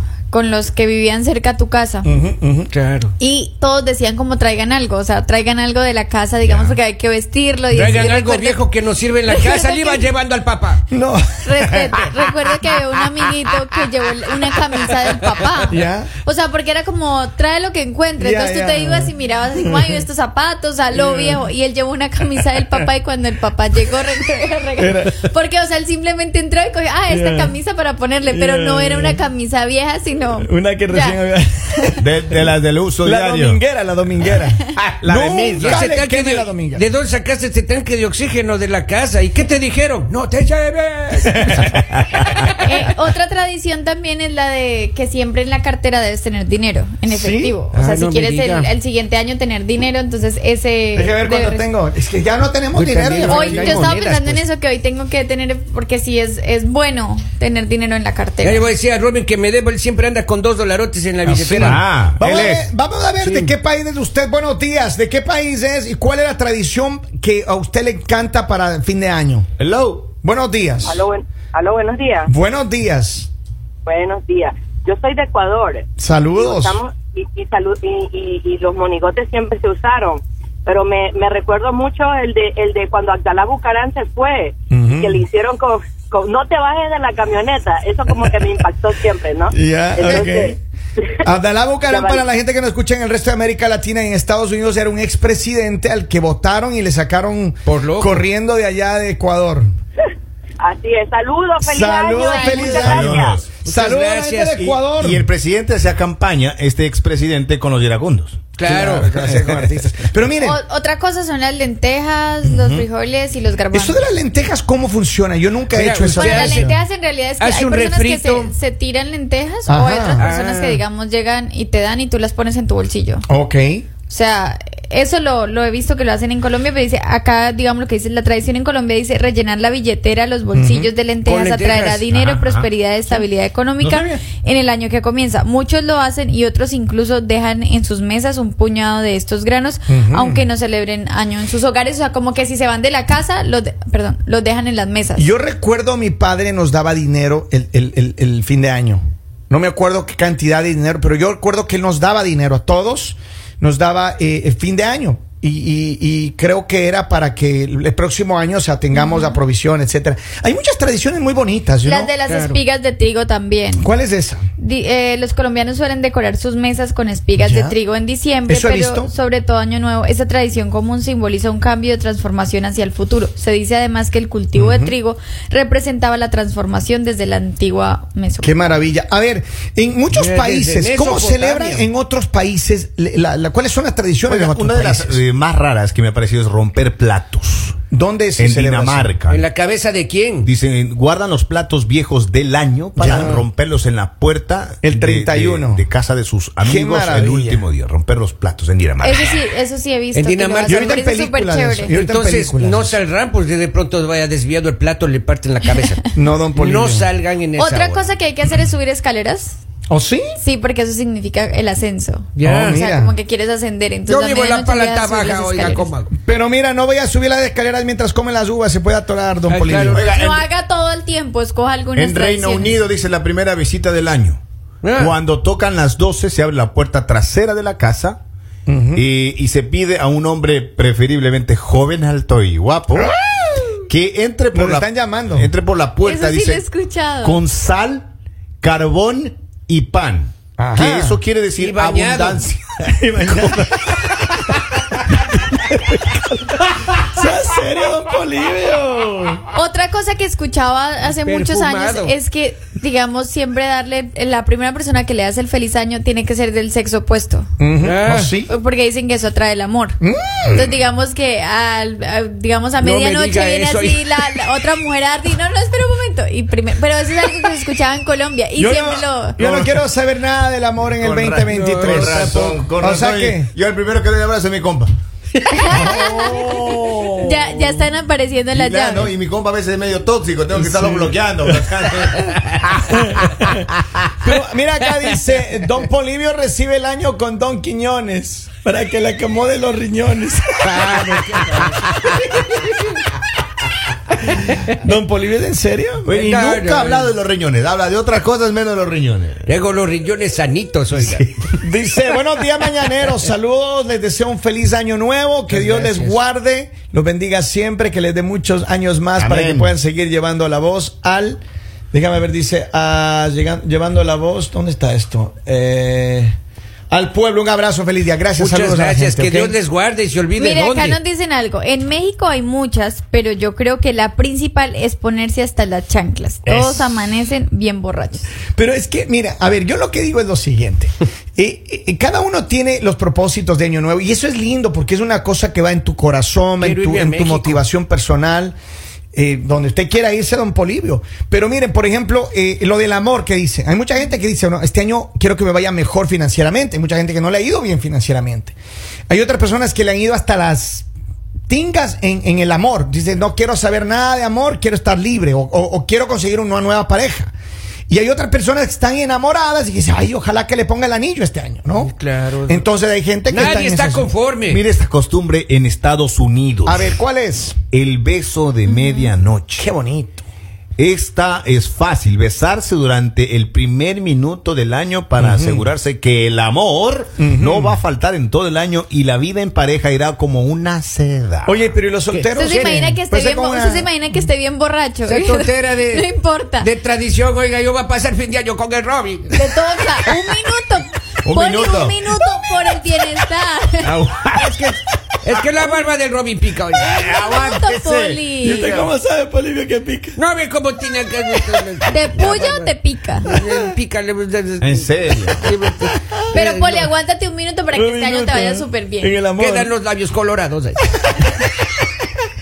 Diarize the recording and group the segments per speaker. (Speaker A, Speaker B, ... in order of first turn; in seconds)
Speaker A: 0.3-2.1, 3.2-8.6, 9.3-10.1, 11.4-31.2, 42.6-51.7, 53.3-58.7, 102.2-103.0, 110.4-114.0, 116.1-123.2, 124.1-145.3, 158.9-159.4, 161.8-163.9, 164.6-178.6, 199.0-201.9, 207.6-209.6, 210.4-215.9, 220.0-222.8, 236.0-237.4, 249.5-257.5, 258.4-260.0, 260.5-269.4, 275.5-276.6, 277.2-279.1, 320.4-328.3, 368.6-369.1, 382.4-386.7, 389.3-393.9, 397.0-398.8, 401.9-403.3, 406.3-409.1
Speaker B: 2.0-2.7, 10.9-12.0, 15.7-16.1, 18.2-20.0, 20.9-21.4, 24.8-25.3, 27.1-27.6, 28.3-29.2, 30.4-32.1, 33.0-36.9, 47.1-47.5, 50.9-53.9, 61.2-69.5, 70.2-71.0, 72.3-73.3, 76.0-76.8, 84.7-85.2, 89.5-90.6, 91.2-99.7, 101.7-105.3, 108.6-110.6, 112.4-112.9, 113.7-116.8, 119.7-120.2, 123.3-123.9, 130.5-130.9, 139.9-140.5, 145.2-162.1, 163.8-164.5, 167.4-167.8, 168.5-169.1, 174.5-174.9, 178.4-185.2, 187.9-189.1, 193.0-193.4, 194.8-195.9, 196.6-197.6, 200.7-202.9, 206.1-207.1, 209.9-210.4, 212.4-213.1, 216.2-220.0, 228.7-229.0, 232.9-233.7, 234.5-235.5, 240.6-241.2, 243.0-244.3, 247.0-249.4, 257.6-258.5, 260.0-260.8, 268.6-273.5, 275.7-277.6, 282.9-283.7, 284.2-291.3, 294.8-296.1, 301.6-311.4, 311.9-316.3, 316.9-319.6, 326.5-327.1, 328.6-338.6, 339.1-348.6, 349.1-350.9, 351.5-357.3, 357.9-361.9, 362.5-364.1, 366.6-367.6, 369.6-370.2, 375.2-375.7, 377.2-377.8, 381.4-383.9, 398.4-400.2, 401.1-401.6, 403.3-403.7, 405.8-406.2, 407.7-409.7, 410.9-411.6
Speaker C: 2.7-3.1, 7.7-10.8, 35.6-41.8, 47.7-48.7, 52.7-54.4, 58.4-61.8, 63.2-63.5, 97.7-98.2, 103.6-104.6, 108.6-110.0, 115.7-116.7, 117.4-118.5, 120.1-120.8, 131.2-132.1, 162.3-162.6, 180.1-181.9, 189.3-190.5, 193.0-193.4, 200.1-200.9, 201.9-208.1, 212.4-212.8, 214.1-216.1, 219.5-220.1, 224.8-225.2, 241.6-242.4, 251.1-252.1, 257.8-258.3, 262.8-264.7, 271.5-272.6, 280.7-281.0, 290.6-292.8, 294.3-294.6, 296.1-297.2, 299.5-301.3, 305.5-306.2, 318.4-321.0, 336.6-337.6, 361.8-362.6, 363.3-364.6, 382.1-382.9, 385.1-389.4, 393.9-396.9, 400.1-406.9, 409.4-410.9
Speaker D: 6.4-6.7, 32.0-33.6, 34.8-35.8, 61.6-62.7, 69.6-70.1, 102.8-103.5, 104.6-108.4, 132.1-132.7, 133.8-134.2, 184.3-187.8, 188.4-189.4, 190.4-199.4, 219.9-220.5, 222.0-224.4, 224.9-228.2, 229.0-233.1, 233.9-236.6, 237.2-238.1, 238.6-244.1, 269.4-269.8, 271.0-274.9, 278.5-283.0, 296.1-299.4, 300.9-301.6, 309.2-309.7, 364.5-366.9, 367.7-369.6, 370.8-381.5, 391.2-392.0, 394.0-394.6, 396.8-398.2, 404.6-405.4
Speaker E: 70.8-72.3, 73.9-90.5, 91.9-92.2, 100.6-103.4